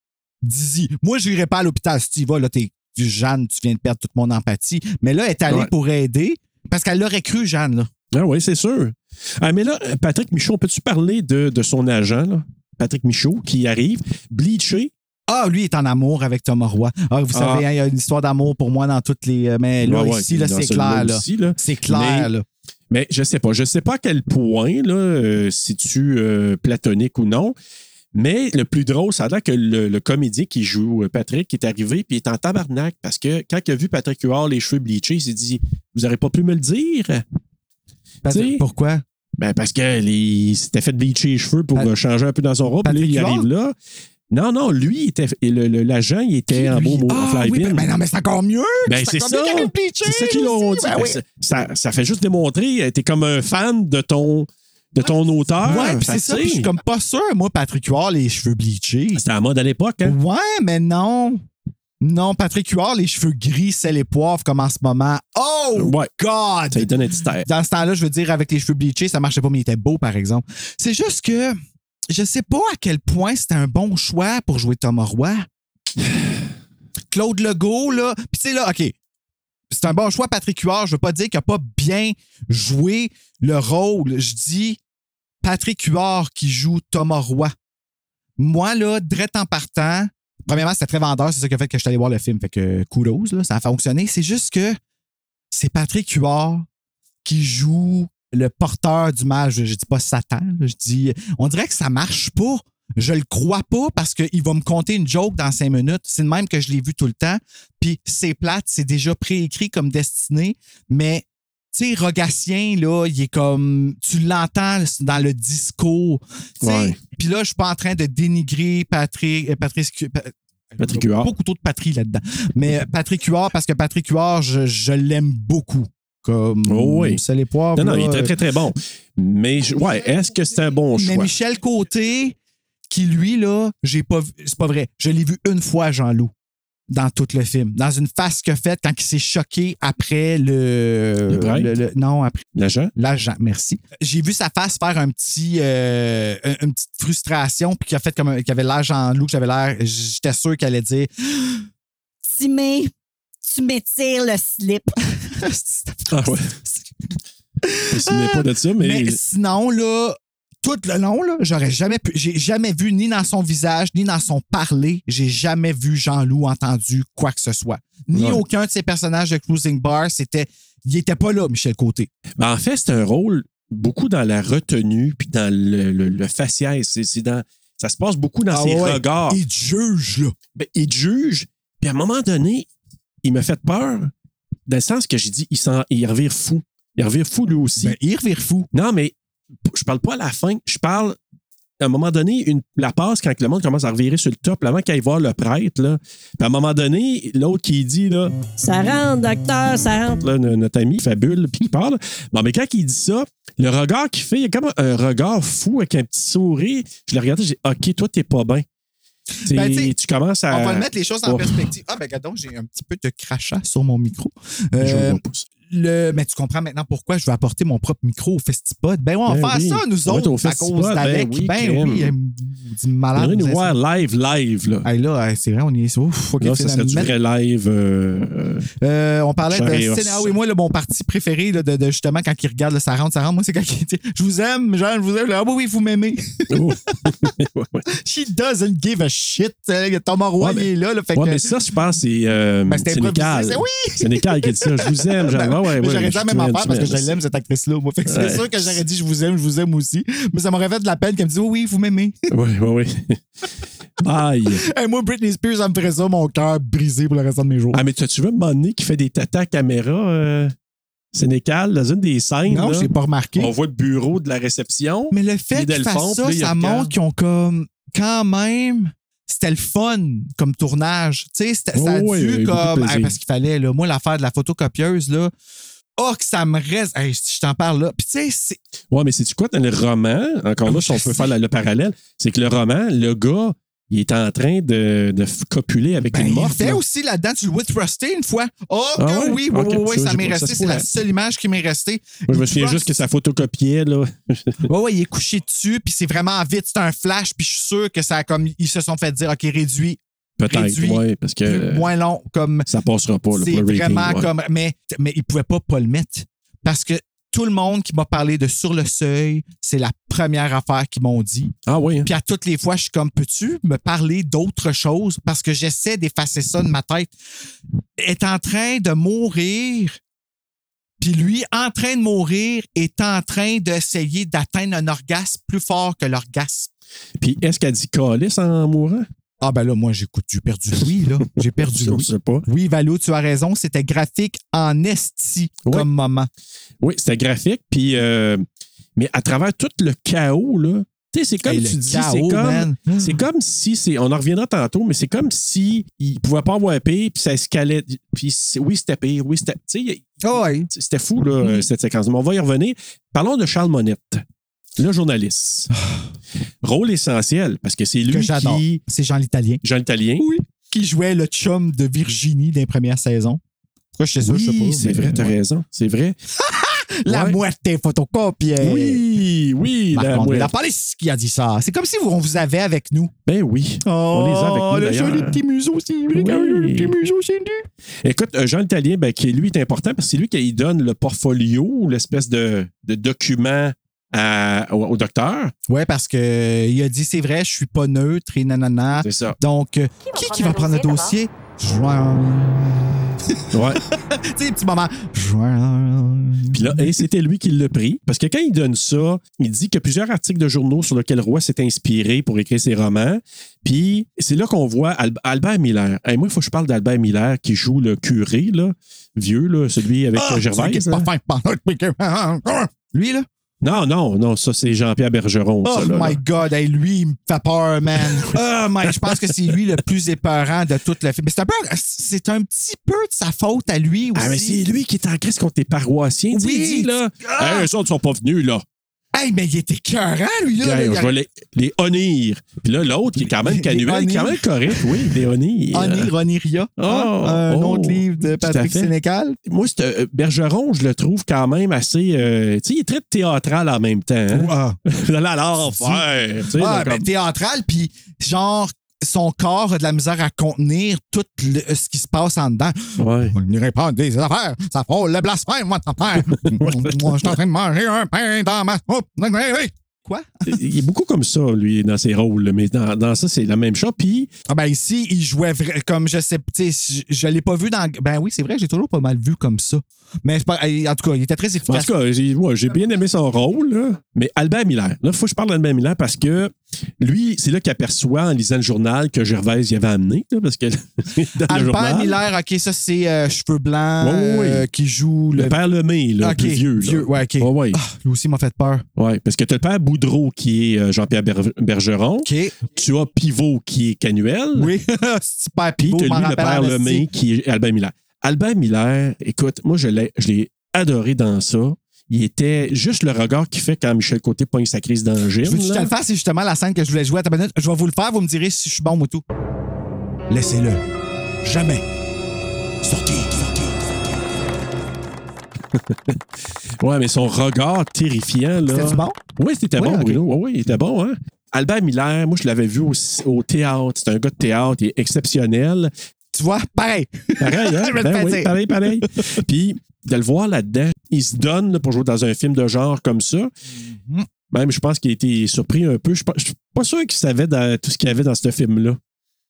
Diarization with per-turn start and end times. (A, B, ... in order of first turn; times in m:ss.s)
0:00.4-0:07.9 A
0:08.1-0:14.9 B
0:15.3-0:22.4 A
0:17.3-0:17.6 B
0:19.8-0:22.3 B
0:22.9-0:27.6 B
0:28.1-0:37.2 B
0:38.2-0:39.0 A
0:38.3-0:38.6 B
0:39.4-0:43.7 B
0:42.8-0:43.5 A
0:44.3-0:47.9 B
0:46.5-0:51.2 A
0:48.8-0:56.7 B
0:55.6-0:59.2 A
0:59.1-1:00.2 B
1:00.0-1:01.4 A
1:02.0-1:06.9 A
1:05.8-1:06.1 B
1:06.7-1:07.5 B
1:07.4-1:11.6 A
1:12.1-1:15.4 A
1:17.1-1:18.9 A
1:19.7-1:24.8 A
1:25.4-1:27.5 A
1:28.4-1:34.8 A
1:35.5-1:36.6 A
1:37.2-2:08.3 A
1:56.6-1:57.0 B
2:00.8-2:01.3 B
2:06.7-2:07.2 B
2:07.7-2:11.3 B
2:11.0-2:12.4 A
2:12.9-2:16.3 A
2:16.9-2:22.4 A
2:21.3-2:21.7 B
2:22.5-2:22.9 B
2:23.0-2:31.6 A
2:32.3-2:32.9 C
2:33.4-2:34.8 C
2:35.2-2:36.8 A
2:36.1-2:36.5 B
2:37.6-2:52.1 A
2:37.9-2:39.2 B
2:48.1-2:48.4 B
2:52.4-2:59.4 B
2:58.5-3:00.3 A
3:00.5-3:02.7 B
3:03.2-3:04.1 B
3:04.7-3:08.0 B
3:07.8-3:08.7 A
3:08.7-3:09.1 B
3:09.6-3:11.2 B
3:11.8-3:28.6 B
3:29.5-3:29.9 A
3:29.5-3:31.7 B
3:30.5-3:43.8 A
3:34.8-3:35.5 B
3:39.2-3:42.1 B
3:43.2-3:44.8 B
3:44.8-3:47.1 A
3:46.4-3:48.6 B
3:48.8-3:56.6 A
3:49.5-3:50.4 B
3:56.5-3:57.8 B
3:57.9-4:01.4 A
4:00.4-4:07.2 B
4:02.7-4:12.1 A
4:08.1-4:08.8 B
4:12.3-4:13.2 B
4:14.0-4:14.6 B
4:14.6-4:17.8 A
4:17.7-4:20.5 B
4:21.1-4:26.9 B
4:22.5-4:23.5 A
4:25.1-4:35.3 A
4:31.7-4:33.2 B
4:36.0-4:38.6 A
4:38.9-4:46.8 B
4:40.6-4:41.2 A
4:46.1-4:53.0 A
4:49.0-4:50.9 B
4:52.3-4:54.6 B
4:54.6-5:02.7 A
5:00.4-5:01.9 B
5:02.7-5:04.3 B
5:03.3-5:11.5 A
5:11.6-5:12.1 B
5:12.0-5:17.1 A
5:18.0-5:20.0 A
5:21.0-5:26.7 A
5:27.2-5:29.0 B
5:29.4-5:36.3 A
5:31.6-5:32.4 B
5:36.8-5:38.4 B
5:39.0-5:54.2 B
5:41.4-5:43.2 A
5:50.2-5:50.7 A
5:54.8-5:55.7 B
5:55.8-5:56.0 A
5:56.6-5:58.8 B
5:58.1-5:59.6 A
5:59.6-6:00.2 B
6:00.2-6:03.4 A
6:03.9-6:05.3 A
6:04.2-6:06.2 B
6:06.4-6:09.0 A
6:07.0-6:07.4 B
6:08.6-6:10.5 B
6:09.9-6:13.1 A
6:13.2-6:15.4 B
6:13.8-6:17.6 A
6:16.1-6:17.0 B
6:18.0-6:25.5 B
6:25.7-6:37.0 A
6:29.0-6:29.4 B
6:33.5-6:33.8 B
6:36.5-6:51.1 B
6:50.2-6:53.2 A
6:53.6-6:56.2 B
6:55.6-7:04.6 A
6:58.0-6:59.6 B
7:04.1-7:08.6 B
7:06.3-7:07.7 A
7:09.1-7:11.1 A
7:10.6-7:16.1 B
7:13.2-7:15.1 A
7:15.7-7:19.4 A
7:16.8-7:18.9 B
7:19.4-7:27.1 B
7:24.3-7:24.8 A
7:25.6-7:40.5 A
7:33.0-7:33.3 B
7:36.2-7:37.3 B
7:40.5-7:44.3 B
7:44.5-7:51.9 A
7:51.6-8:02.2 B
8:01.5-8:05.6 A
8:04.0-8:04.7 B
8:05.4-8:07.8 B
8:06.2-8:08.8 A
8:09.0-8:14.7 B
8:12.2-8:12.6 A
8:14.5-8:17.1 A
8:15.8-8:25.9 B
8:25.4-8:29.2 A
8:30.3-8:30.8 A
8:31.4-8:31.8 A
8:32.8-8:33.7 A
8:35.7-8:36.2 B
8:36.8-8:45.9 B
8:38.6-8:39.2 A
8:39.8-8:40.2 A
8:46.3-8:48.5 A
8:47.4-8:53.5 B
8:53.7-8:54.3 A
8:54.5-8:59.0 B